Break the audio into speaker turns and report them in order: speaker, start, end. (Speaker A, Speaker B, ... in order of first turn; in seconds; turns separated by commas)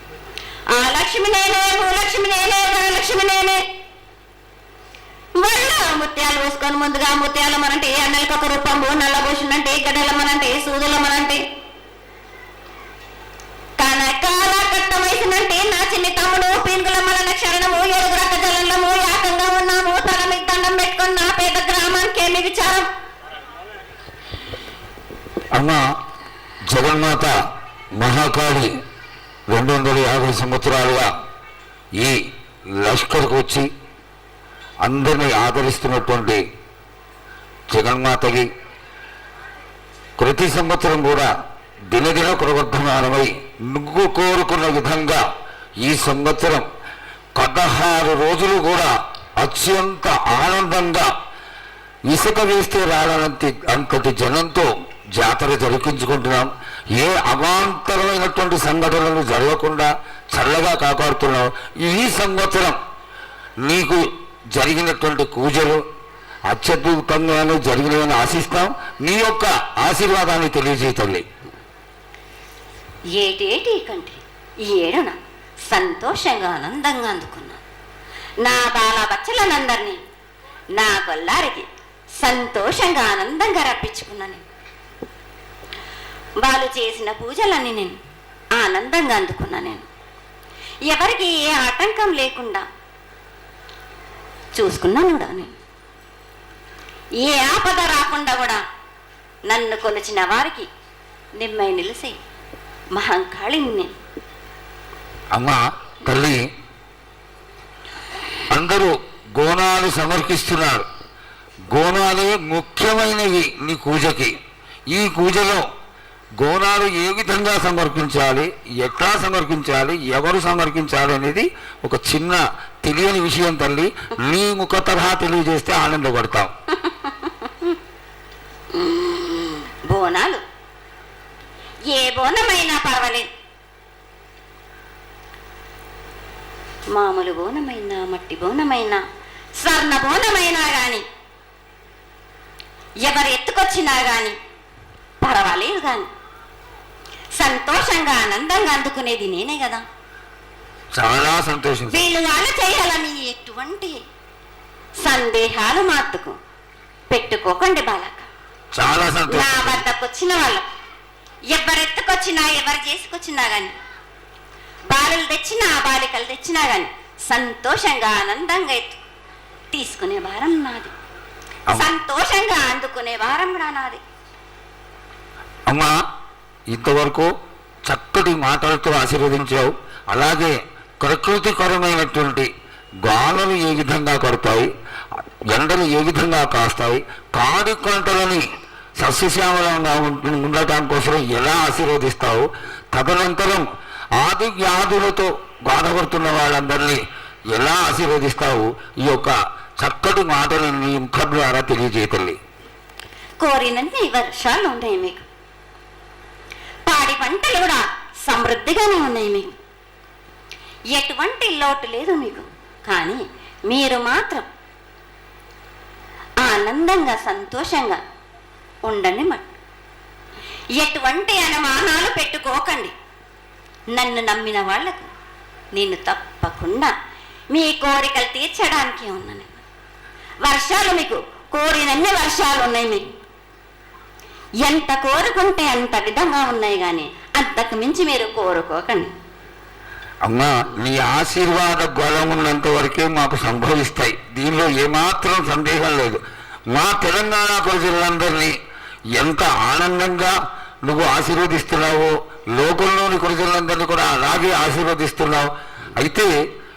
Speaker A: 0.7-3.6, Speaker A: 5.4-11.4, Speaker A: 13.8-22.9, Speaker B: 25.5-25.8, Speaker B: 26.7-27.3, Speaker B: 28.0-28.8, Speaker B: 29.5-31.1, Speaker B: 32.8-33.7, Speaker B: 34.8-36.4, Speaker B: 37.7-38.5, Speaker B: 40.2-41.3, Speaker B: 41.9-45.2, Speaker B: 45.8-46.6, Speaker B: 47.4-51.1, Speaker B: 52.1-62.8, Speaker B: 63.6-64.0, Speaker B: 64.5-65.8, Speaker B: 66.5-71.2, Speaker A: 73.2-75.2, Speaker A: 75.7-77.6, Speaker A: 78.4-80.0, Speaker A: 80.8-81.7, Speaker A: 82.2-84.4, Speaker A: 86.4-88.0, Speaker A: 88.6-89.9, Speaker A: 90.9-92.7, Speaker A: 94.5-95.5, Speaker A: 97.2-98.6, Speaker A: 99.5-100.7, Speaker A: 101.4-102.2, Speaker A: 102.9-103.9, Speaker B: 105.3-106.4, Speaker B: 108.5-110.9, Speaker B: 111.7-114.3, Speaker B: 114.9-115.6, Speaker B: 116.4-126.5, Speaker A: 126.8-127.8, Speaker A: 128.7-130.4, Speaker A: 131.9-133.3, Speaker A: 136.9-139.0, Speaker A: 139.6-141.0, Speaker A: 143.0-144.3, Speaker A: 145.2-146.1, Speaker A: 147.4-149.8, Speaker B: 150.9-152.0, Speaker A: 151.9-154.0, Speaker A: 155.0-156.4, Speaker A: 157.1-158.3, Speaker B: 158.7-159.8, Speaker A: 159.3-160.6, Speaker A: 161.5-163.7, Speaker A: 164.9-169.0, Speaker A: 169.7-170.9, Speaker A: 171.7-174.0, Speaker B: 176.7-177.3, Speaker B: 177.9-182.5, Speaker B: 183.0-184.7, Speaker B: 185.5-188.4, Speaker B: 189.0-193.7, Speaker B: 194.2-197.0, Speaker B: 197.5-202.4, Speaker A: 203.4-205.2, Speaker A: 206.9-209.5, Speaker A: 210.9-214.4, Speaker A: 216.4-218.0, Speaker A: 218.9-219.5, Speaker A: 220.8-222.9, Speaker A: 223.9-225.1, Speaker A: 225.7-226.9, Speaker A: 227.5-229.6, Speaker A: 230.4-233.1, Speaker A: 234.6-239.1, Speaker B: 240.2-246.2, Speaker B: 246.7-248.5, Speaker B: 249.2-256.3